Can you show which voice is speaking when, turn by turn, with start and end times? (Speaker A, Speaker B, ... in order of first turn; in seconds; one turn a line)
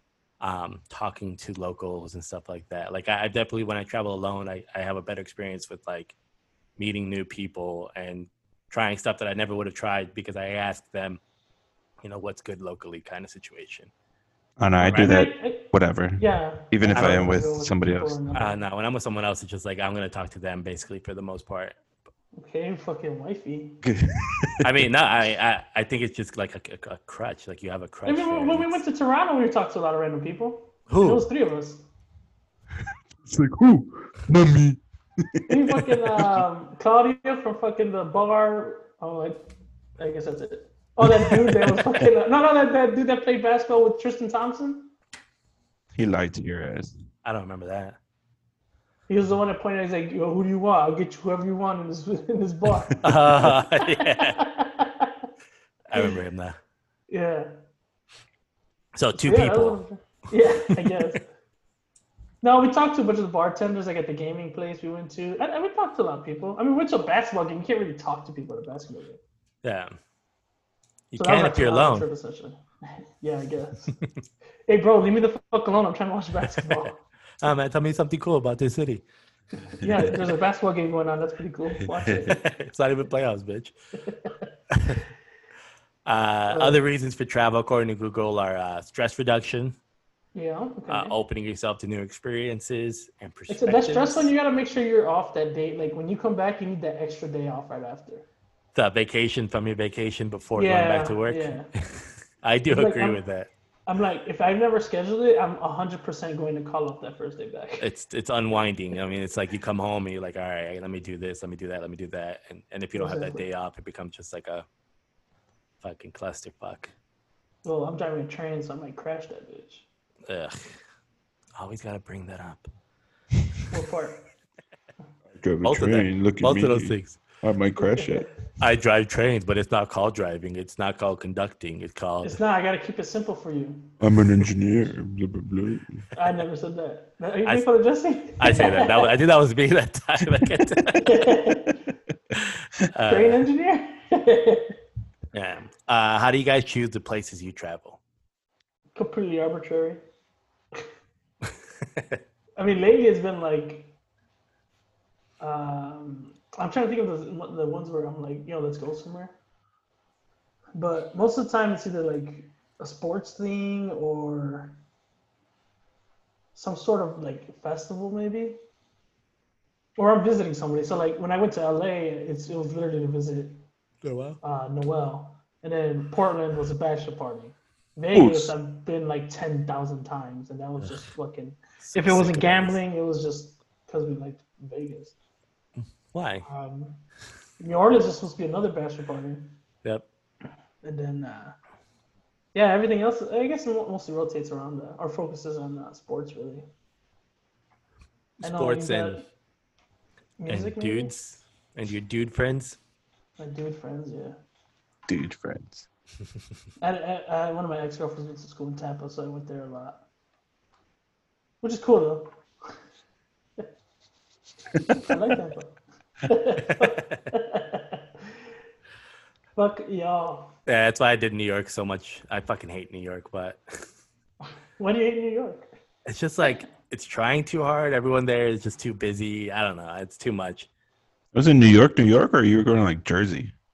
Speaker A: 0.4-6.2
Speaker A: 6.8-11.2
Speaker A: 12.0-13.9
Speaker B: 14.6-18.2
Speaker C: 14.8-18.6
Speaker A: 16.9-17.2
Speaker A: 18.3-21.8
Speaker C: 22.4-23.8
Speaker B: 23.8-24.9
Speaker A: 24.6-28.8
Speaker C: 28.1-31.9
Speaker A: 30.9-31.2
Speaker B: 33.2-36.4
Speaker C: 35.5-39.5
Speaker C: 40.0-44.9
Speaker B: 41.2-41.8
Speaker B: 46.0-47.0
Speaker A: 47.2-48.0
Speaker C: 49.1-55.1
Speaker A: 53.0-54.4
Speaker A: 55.9-56.6
Speaker C: 57.1-57.5
Speaker A: 59.0-59.8
Speaker C: 59.2-61.3
Speaker A: 60.7-61.2
Speaker C: 62.4-69.2
Speaker A: 69.6-69.9
Speaker A: 71.1-72.1
Speaker C: 71.2-74.0
Speaker C: 74.7-77.0
Speaker A: 76.5-76.9
Speaker A: 77.4-79.0
Speaker C: 79.8-82.4
Speaker B: 79.8-80.2
Speaker B: 82.0-82.3
Speaker A: 82.3-83.7
Speaker C: 84.1-84.4
Speaker A: 84.7-85.0
Speaker A: 86.1-89.8
Speaker C: 86.5-86.8
Speaker C: 90.3-91.2
Speaker A: 90.9-94.3
Speaker C: 93.5-98.3
Speaker A: 98.8-103.5
Speaker C: 100.5-101.7
Speaker C: 102.7-103.2
Speaker C: 103.9-107.9
Speaker A: 107.8-114.7
Speaker C: 112.9-113.5
Speaker A: 115.8-116.9
Speaker C: 117.6-119.9
Speaker A: 120.3-120.8
Speaker A: 121.6-122.7
Speaker C: 123.7-124.2
Speaker B: 125.3-128.3
Speaker A: 125.6-127.2
Speaker C: 127.8-128.3
Speaker A: 128.6-132.4
Speaker C: 132.2-133.9
Speaker B: 134.0-136.1
Speaker C: 136.2-139.1
Speaker A: 138.4-141.2
Speaker C: 141.0-141.8
Speaker A: 142.4-143.5
Speaker C: 143.1-144.7
Speaker A: 145.3-148.0
Speaker C: 148.9-150.0
Speaker C: 152.6-153.9
Speaker C: 155.4-159.4
Speaker C: 160.8-164.8
Speaker C: 166.6-168.6
Speaker C: 170.0-173.6
Speaker A: 174.0-174.4
Speaker C: 174.4-185.2
Speaker B: 178.1-178.5
Speaker A: 181.8-182.8
Speaker A: 186.1-186.5
Speaker C: 186.4-187.0
Speaker C: 187.6-189.6
Speaker C: 190.8-191.6
Speaker C: 192.5-196.7
Speaker A: 198.4-199.3
Speaker C: 198.4-199.3
Speaker C: 200.4-201.1
Speaker A: 200.5-202.8
Speaker C: 203.4-204.4
Speaker B: 205.1-205.9
Speaker C: 206.8-210.0
Speaker C: 211.6-212.3
Speaker C: 214.9-218.0
Speaker A: 216.7-217.2
Speaker C: 219.6-220.5
Speaker A: 220.7-223.6
Speaker C: 224.8-225.7
Speaker A: 226.1-230.7
Speaker B: 231.3-233.5